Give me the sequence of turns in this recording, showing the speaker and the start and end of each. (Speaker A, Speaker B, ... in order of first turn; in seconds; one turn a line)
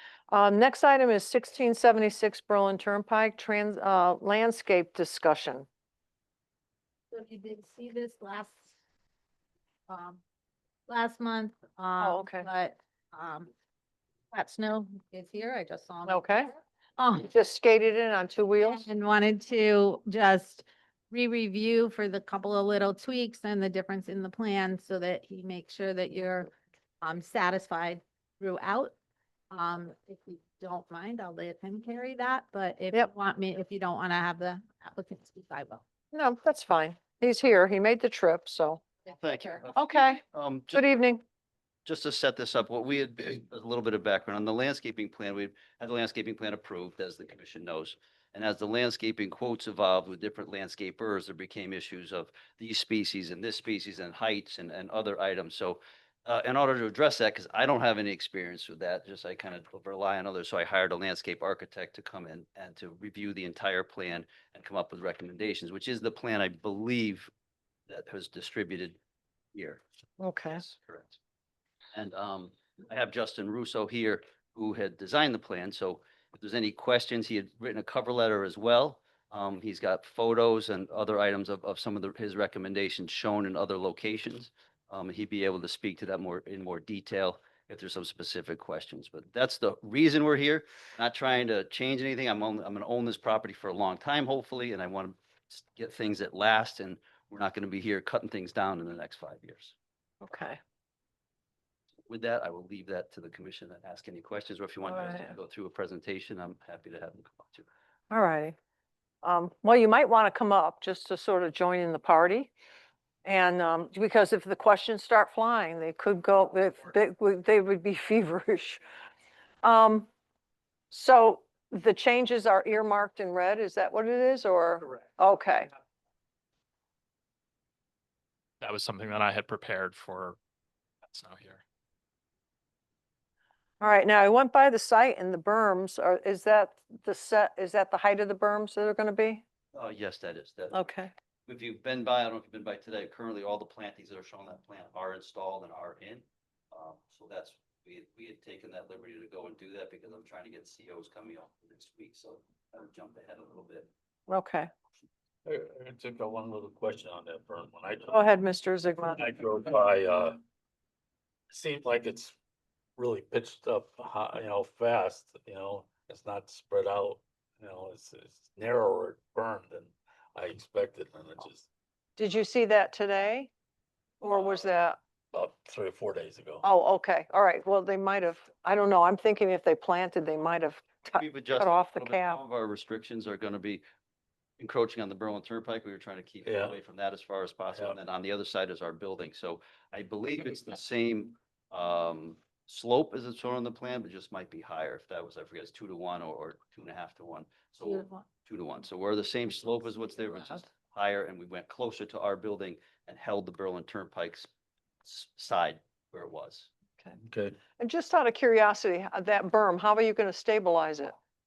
Speaker A: 0.3-5.7
Speaker B: 7.1-8.8
Speaker B: 9.9-10.2
Speaker B: 10.9-13.5
Speaker A: 12.0-12.5
Speaker B: 14.3-17.3
Speaker A: 16.1-16.5
Speaker A: 17.3-18.9
Speaker B: 18.6-28.9
Speaker B: 29.5-35.8
Speaker A: 36.1-38.8
Speaker B: 39.1-39.6
Speaker C: 39.1-40.9
Speaker A: 39.7-40.2
Speaker A: 40.7-41.2
Speaker C: 41.9-67.3
Speaker C: 67.9-69.0
Speaker C: 69.5-69.8
Speaker A: 70.2-70.6
Speaker C: 70.5-71.2
Speaker C: 71.9-99.7
Speaker A: 100.2-100.6
Speaker C: 102.1-107.7
Speaker A: 104.9-105.3
Speaker A: 108.1-108.6
Speaker A: 109.2-112.5
Speaker A: 113.2-118.8
Speaker A: 119.6-120.1
Speaker A: 120.9-125.7
Speaker D: 128.6-130.4
Speaker D: 131.1-131.6
Speaker A: 133.8-139.4
Speaker C: 139.7-140.8
Speaker A: 140.7-141.1
Speaker C: 141.5-153.9
Speaker A: 154.3-154.7
Speaker E: 155.4-158.2
Speaker A: 158.1-159.2
Speaker E: 159.1-160.4
Speaker E: 161.5-162.3
Speaker E: 163.0-171.7
Speaker A: 172.2-173.5
Speaker A: 174.2-175.0
Speaker E: 174.3-174.7
Speaker E: 175.3-176.6
Speaker A: 176.6-182.4
Speaker C: 181.2-183.8
Speaker C: 184.6-204.5
Speaker E: 186.4-186.8
Speaker E: 187.7-188.0
Speaker C: 205.0-206.7
Speaker E: 207.2-207.6
Speaker A: 207.8-211.2